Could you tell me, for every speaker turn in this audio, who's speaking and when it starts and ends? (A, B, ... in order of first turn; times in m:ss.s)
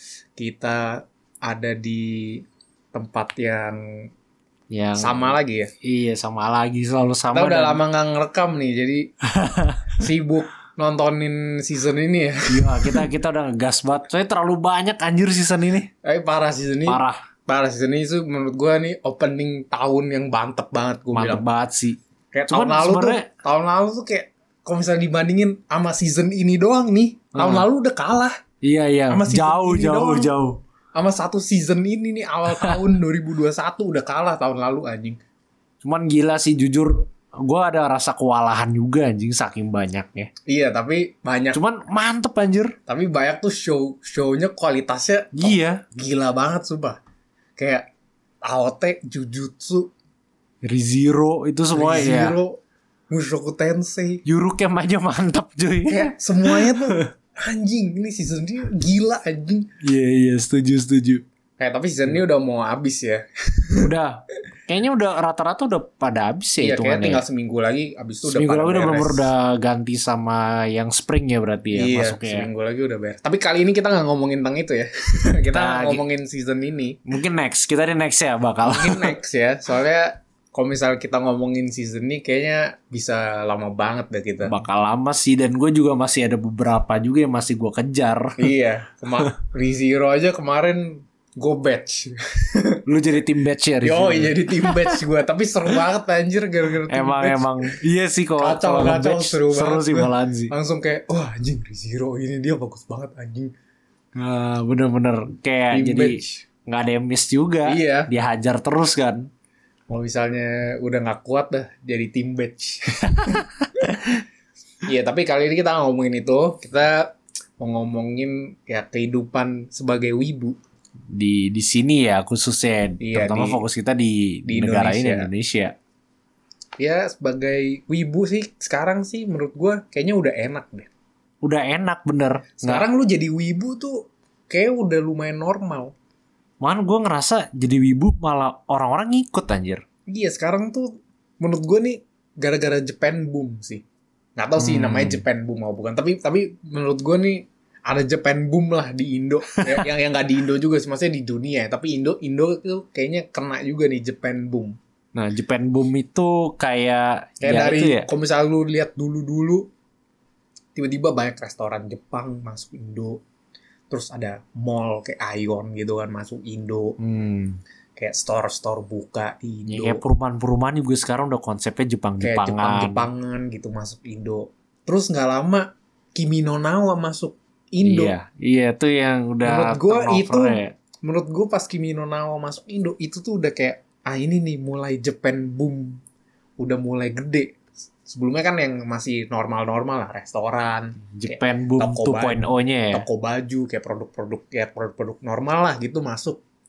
0:00.4-0:04.1 A
0:04.7-0:07.8 B
0:05.0-0:05.7 A
0:07.3-0:09.1 A
0:09.3-0:10.0 B
0:09.9-0:13.0 A
0:12.5-0:15.9 B
0:16.0-0:21.4 A
0:16.9-0:17.2 B
0:21.1-0:22.0 B
0:22.3-0:28.4 A
0:22.5-0:23.3 B
0:27.3-0:27.7 B
0:28.6-0:30.6 B
0:29.1-0:30.3 A
0:30.9-0:35.2 A
0:32.5-0:32.8 B
0:35.8-0:40.3 B
0:40.5-0:41.6 A
0:41.5-0:42.8 B
0:42.9-0:47.0 A
0:45.3-0:45.8 B
0:47.6-0:47.9 A
0:48.4-0:49.9 A
0:50.6-0:52.4 B
0:51.7-0:54.2 A
0:54.2-0:57.1 B
0:55.9-0:59.7 A
0:59.8-1:01.2 B
1:01.6-1:03.9 A
1:03.8-1:07.2 B
1:06.6-1:09.3 A
1:08.2-1:12.5 B
1:11.7-1:17.0 A
1:15.5-1:16.0 B
1:17.0-1:19.1 B
1:18.6-1:24.5 A
1:24.4-1:28.5 B
1:28.4-1:32.8 A
1:32.9-1:35.0 B
1:33.8-1:37.8 A
1:36.9-1:40.5 B
1:38.4-1:43.5 A
1:44.1-1:49.3 B
1:45.7-1:46.4 A
1:47.6-1:48.1 A
1:49.9-1:53.5 A
1:54.8-2:00.5 A
2:01.1-2:05.7 B
2:03.0-2:03.6 A
2:04.4-2:05.3 A
2:06.8-2:10.9 A
2:11.4-2:12.8 B
2:12.6-2:15.9 A
2:16.6-2:19.8 B
2:20.1-2:23.8 A
2:24.4-2:34.8 A
2:24.6-2:25.2 B
2:29.5-2:29.9 B
2:35.1-2:38.1 B
2:37.4-2:39.7 A
2:40.8-2:43.2 A
2:43.9-2:46.9 A
2:47.0-2:47.6 B
2:48.0-2:50.0 A
2:49.7-2:53.1 B
2:52.2-2:58.1 A
2:57.8-3:00.7 B
2:59.4-3:06.0 A
3:06.6-3:16.4 A
3:11.1-3:13.0 B